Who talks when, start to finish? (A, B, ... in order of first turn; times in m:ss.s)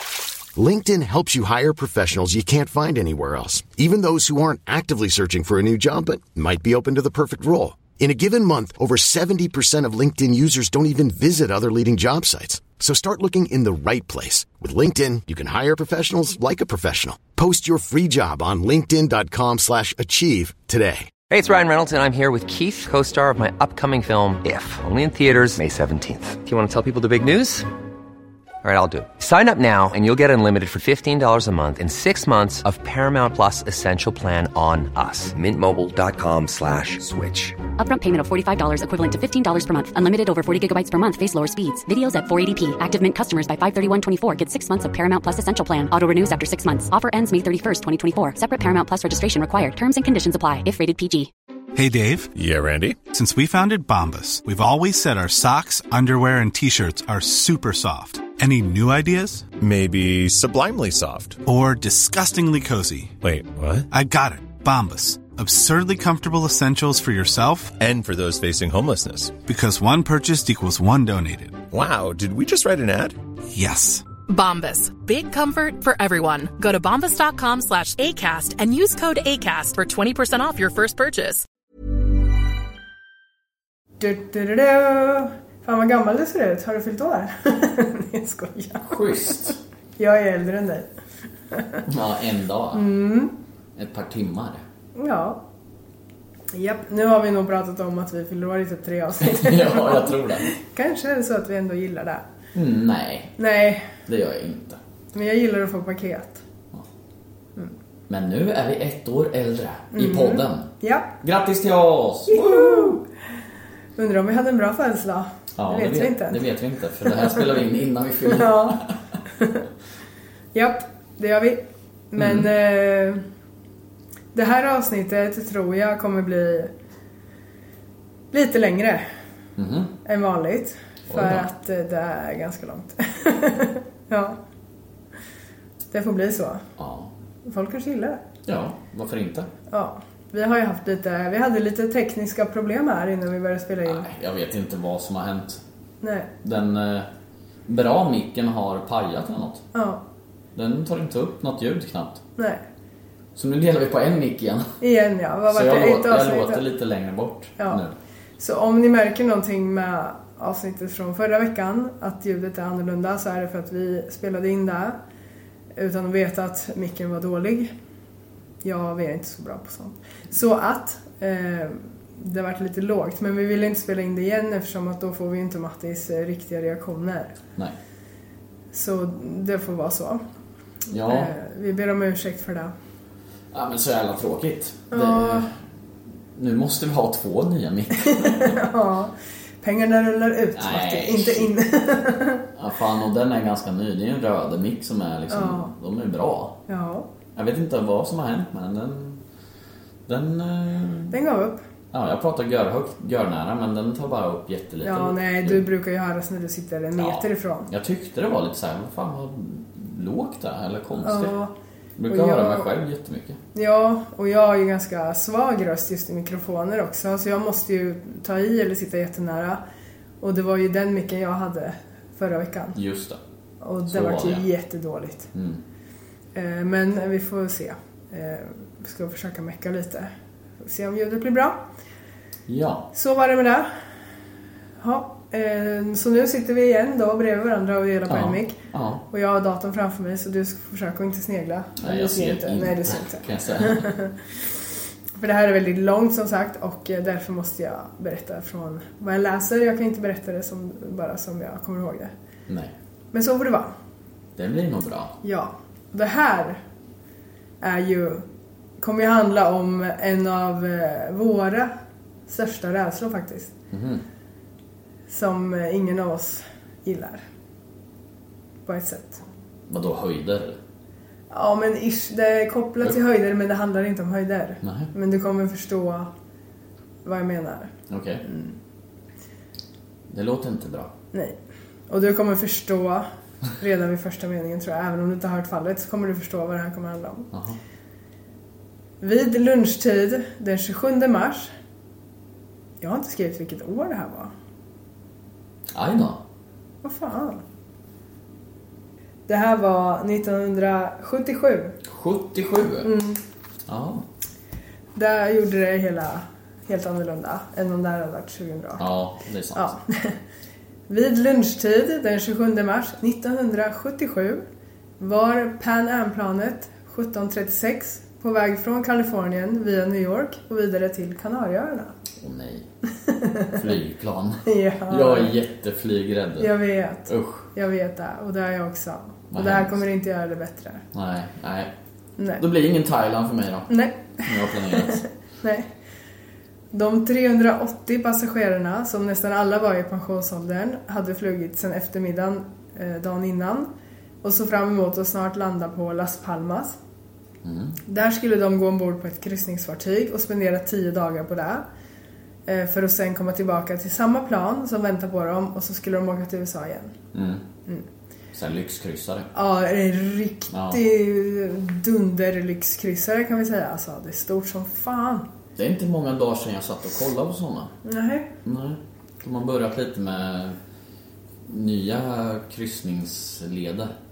0:00.5-0:21.1 A
0:21.3-0:27.7 B
0:28.6-0:37.6 B
0:37.8-0:51.3 C
0:51.7-0:52.3 D
0:52.3-0:53.0 E
0:53.1-0:59.5 D
0:59.6-1:01.4 E
1:01.4-1:03.2 D
1:03.2-1:03.9 E
1:03.9-1:07.7 D
1:07.8-1:09.3 E
1:09.4-1:11.6 D
1:11.7-1:13.2 E
1:13.5-1:14.1 D
1:14.3-1:21.4 F
1:24.0-1:30.9 G
1:28.9-1:29.6 H
1:31.5-1:31.8 G
1:31.9-1:32.9 H
1:32.7-1:33.3 G
1:33.8-1:34.6 H
1:35.0-1:35.4 G
1:36.5-1:42.2 G
1:39.2-1:40.5 H
1:42.5-1:43.4 H
1:43.4-1:43.9 G
1:44.0-1:44.8 H
1:45.1-1:46.4 G
1:48.1-1:53.0 H
1:49.9-1:51.2 G
1:52.3-1:53.0 G
1:54.0-1:56.4 G
1:55.6-1:59.0 H
1:58.3-1:58.8 G
1:59.4-1:59.6 G
2:00.5-2:03.2 G
2:02.2-2:02.5 H
2:04.3-2:06.7 G
2:08.3-2:09.1 G
2:09.6-2:09.9 H
2:10.0-2:14.4 G
2:11.1-2:11.4 H
2:15.9-2:16.6 G
2:16.8-2:17.1 H
2:17.4-2:18.2 G
2:18.5-2:19.5 H
2:19.7-2:24.1 G
2:23.8-2:25.6 H
2:26.0-2:26.3 G
2:26.4-2:27.1 H
2:27.7-2:29.6 H
2:29.7-2:30.0 G
2:30.5-2:32.2 H
2:33.3-2:34.8 H
2:34.8-2:36.6 G
2:35.5-2:37.9 H
2:38.4-2:45.0 G
2:45.7-2:47.7 G
2:48.6-2:57.3 G
2:58.7-3:00.2 G
3:00.9-3:01.3 H
3:00.9-3:02.7 G
3:03.5-3:05.5 H
3:04.9-3:05.5 G
3:06.4-3:08.6 H
3:08.0-3:12.4 G
3:10.5-3:11.5 H
3:12.6-3:16.6 H
3:15.3-3:15.7 G
3:16.7-3:17.1 G
3:17.3-3:19.2 H
3:20.1-3:21.2 H
3:21.1-3:21.6 G
3:21.9-3:25.7 H
3:24.8-3:27.7 G
3:27.0-3:31.3 H
3:31.0-3:31.5 G
3:32.0-3:33.4 H
3:32.1-3:32.7 G
3:33.5-3:39.6 G
3:40.2-3:42.8 G
3:42.7-3:43.2 H
3:43.6-3:45.3 G
3:43.9-3:44.5 H
3:45.3-3:45.6 H
3:46.3-3:51.6 G
3:52.5-3:52.9 H
3:52.9-3:53.7 G
3:54.8-3:58.6 G
3:58.1-3:59.0 H
3:59.1-4:04.2 G
4:01.8-4:03.9 H
4:05.2-4:12.1 G
4:13.1-4:13.7 G
4:14.4-4:15.2 H
4:15.2-4:16.6 G
4:17.6-4:18.2 G
4:18.8-4:21.7 G
4:22.3-4:23.5 G
4:23.7-4:24.0 H
4:25.1-4:27.2 G
4:28.6-4:29.2 G
4:29.7-4:30.6 H
4:31.3-4:36.1 G
4:34.6-4:34.9 H
4:37.0-4:37.7 G
4:37.9-4:38.2 H
4:38.2-4:38.6 G
4:40.1-4:40.9 H
4:41.9-4:43.0 G
4:43.6-4:47.3 G
4:47.3-4:47.6 H
4:49.0-4:51.5 G
4:52.8-4:54.3 G
4:55.7-4:56.2 H
4:56.8-4:57.4 G
4:59.3-5:01.8 G
5:01.9-5:02.9 H
5:02.8-5:03.2 G
5:03.7-5:04.0 H
5:04.9-5:08.9 G
5:08.8-5:09.7 H
5:09.5-5:10.2 G
5:10.9-5:14.4 G
5:15.0-5:21.9 G
5:22.2-5:22.6 H
5:23.0-5:23.6 G
5:23.5-5:27.5 H
5:24.4-5:25.3 G
5:26.4-5:30.8 G
5:29.3-5:29.8 H
5:30.9-5:31.7 H
5:32.2-5:32.4 G
5:32.4-5:35.0 H
5:33.7-5:35.7 G
5:36.7-5:43.7 G
5:44.2-5:46.8 G
5:47.4-5:47.8 H
5:47.9-5:51.6 G
5:52.5-5:56.9 G
5:57.1-5:57.4 H
5:58.3-5:59.3 H
5:59.3-6:05.3 G
6:00.5-6:00.8 H
6:05.6-6:07.7 H
6:07.8-6:08.3 G
6:08.4-6:10.6 H
6:11.5-6:13.9 H